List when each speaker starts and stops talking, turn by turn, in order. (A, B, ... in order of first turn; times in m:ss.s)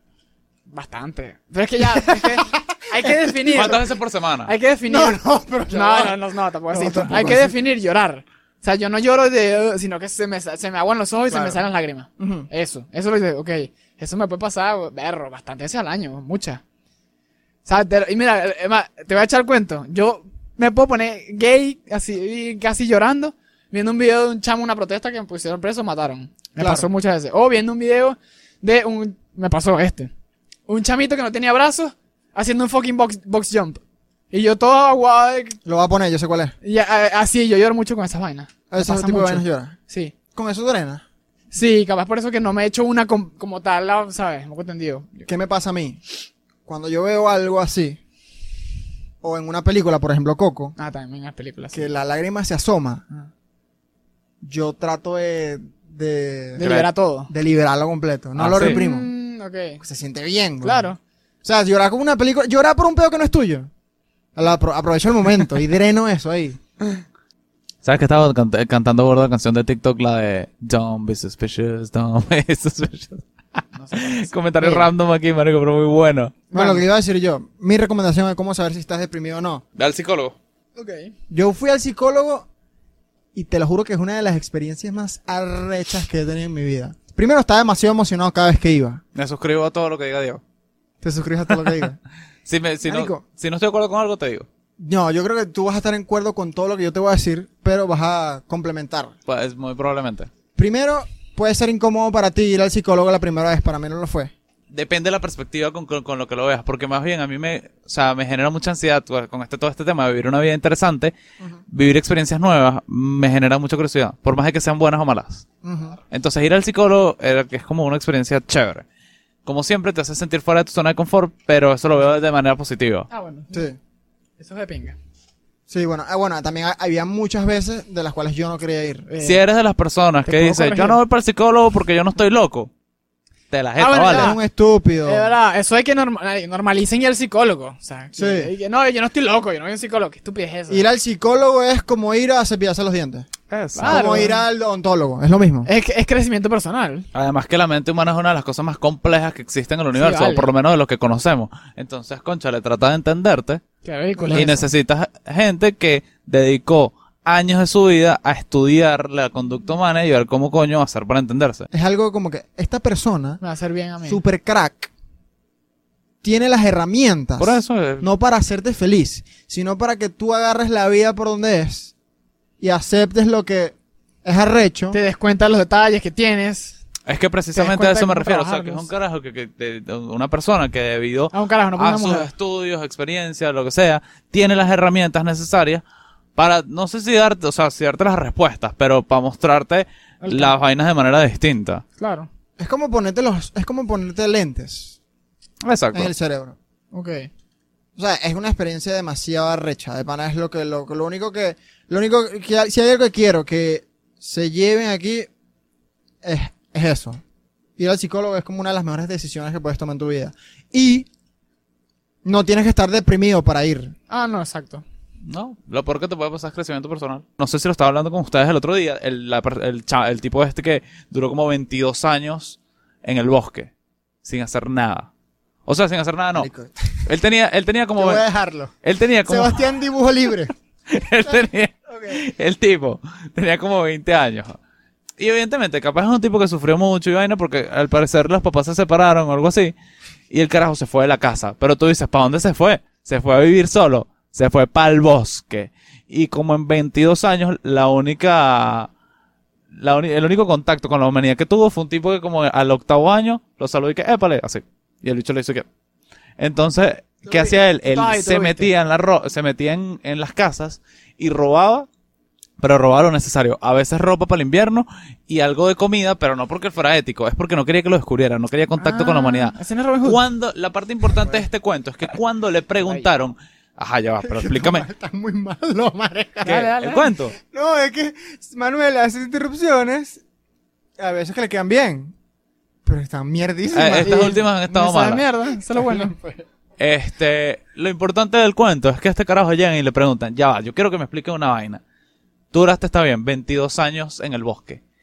0:00.7-0:03.9 A
0:01.9-0:03.9 B
0:03.5-0:04.5 C
0:04.4-0:16.6 A
0:04.9-0:07.5 B
0:11.3-0:11.6 B
0:12.2-0:12.5 B
0:17.6-0:30.1 A
0:26.6-0:26.9 B
0:30.7-0:33.8 A
0:34.3-0:35.6 A
0:35.6-0:36.5 B
0:36.6-0:40.1 A
0:38.7-0:39.8 B
0:40.3-0:41.0 B
0:41.5-0:45.3 A
0:45.3-0:46.0 B
0:46.6-0:48.0 B
0:49.2-0:50.7 B
0:50.8-0:51.9 A
0:51.7-0:53.0 B
0:54.4-0:56.7 B
0:56.6-0:57.3 A
0:56.6-0:56.9 C
0:57.3-0:59.1 B
0:58.4-0:58.8 C
0:58.6-0:59.8 A
0:59.8-1:00.9 B
1:00.6-1:01.0 A
1:01.4-1:03.7 B
1:04.4-1:06.6 B
1:07.8-1:16.4 C
1:13.8-1:14.8 A
1:16.5-1:16.8 A
1:16.5-1:19.6 B
1:19.8-1:20.4 C
1:20.8-1:21.1 A
1:21.3-1:22.5 B
1:23.3-1:29.0 B
1:29.2-1:30.4 C
1:31.0-1:32.0 B
1:32.4-1:34.5 C
1:32.8-1:33.2 B
1:34.8-1:39.1 B
1:39.3-1:40.3 C
1:40.6-1:44.3 B
1:44.7-1:51.1 C
1:51.7-1:55.4 C
1:55.6-1:56.0 B
1:56.1-1:58.8 C
1:59.4-2:03.1 C
2:03.1-2:03.7 A
2:03.5-2:03.8 B
2:04.4-2:05.0 A
2:05.7-2:09.1 B
2:09.1-2:09.4 A
2:09.2-2:12.7 C
2:10.2-2:11.0 A
2:13.5-2:14.4 C
2:13.8-2:14.4 A
2:14.0-2:15.3 B
2:15.0-2:20.8 A
2:18.2-2:18.5 B
2:20.7-2:23.3 B
2:23.5-2:24.2 C
2:23.7-2:24.4 A
2:23.8-2:25.7 B
2:25.6-2:27.1 A
2:27.1-2:33.6 C
2:29.9-2:30.5 A
2:33.8-2:34.6 A
2:34.2-2:34.6 B
2:34.3-2:41.7 C
2:41.7-2:43.4 B
2:43.4-2:44.2 A
2:44.0-2:44.9 B
2:46.2-2:51.9 B
2:47.4-2:48.1 C
2:52.6-2:55.0 B
2:54.9-2:56.8 A
2:57.0-3:05.8 C
2:57.5-2:58.9 A
3:01.3-3:02.3 A
3:06.4-3:11.8 C
3:10.2-3:10.6 A
3:12.0-3:12.3 A
3:12.6-3:15.0 B
3:15.6-3:16.1 C
3:15.9-3:16.6 B
3:16.9-3:17.3 A
3:18.0-3:25.3 B
3:26.2-3:27.2 B
3:27.8-3:31.1 B
3:32.2-3:33.9 B
3:34.1-3:34.8 A
3:35.3-3:43.7 C
3:44.2-3:45.1 C
3:45.6-3:46.5 C
3:46.4-3:47.1 B
3:47.0-3:48.2 C
3:48.0-3:48.7 B
3:48.8-3:49.6 C
3:49.3-3:50.5 B
3:50.9-3:54.6 C
3:51.3-3:52.2 B
3:55.2-3:59.7 C
4:00.3-4:08.9 C
4:09.7-4:15.6 C
4:16.4-4:21.9 C
4:17.2-4:18.7 A
4:22.6-4:34.8 C
4:28.8-4:30.2 A
4:31.2-4:31.4 B
4:32.8-4:33.1 A
4:34.2-4:36.6 B
4:36.4-4:37.1 A
4:36.4-4:37.4 C
4:37.4-4:40.2 B
4:41.0-4:42.1 B
4:42.8-4:44.4 B
4:43.7-4:45.2 C
4:44.0-4:46.1 A
4:45.7-4:46.4 B
4:46.8-4:51.8 C
4:52.5-4:54.8 C